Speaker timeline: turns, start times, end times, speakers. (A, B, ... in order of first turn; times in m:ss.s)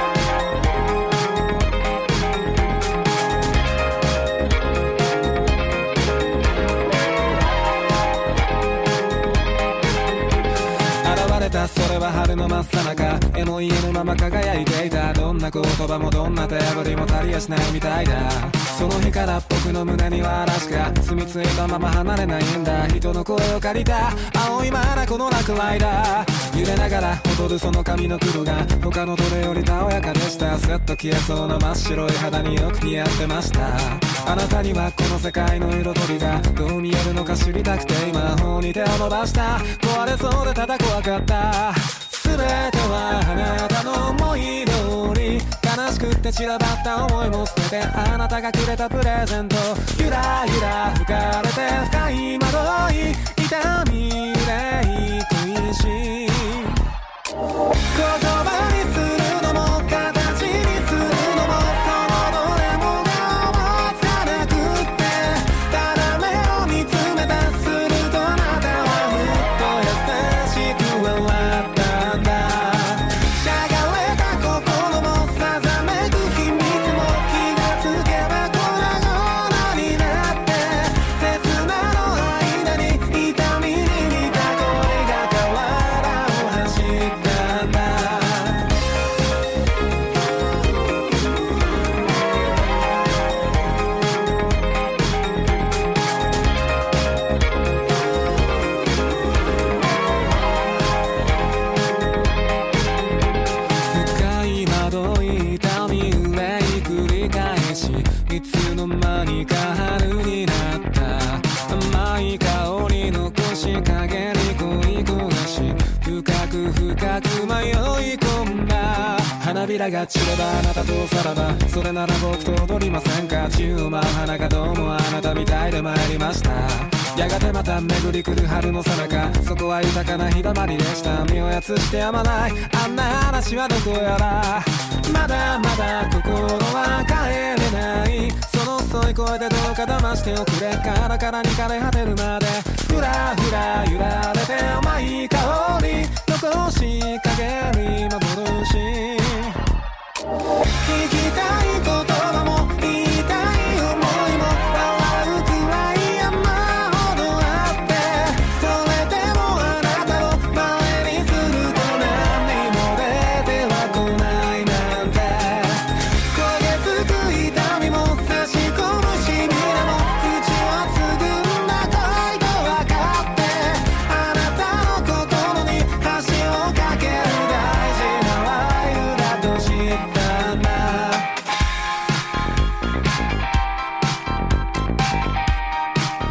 0:11.0-0:56.8 A
0:57.9-1:28.8 A
1:43.8-2:29.6 A
2:30.8-3:01.3 A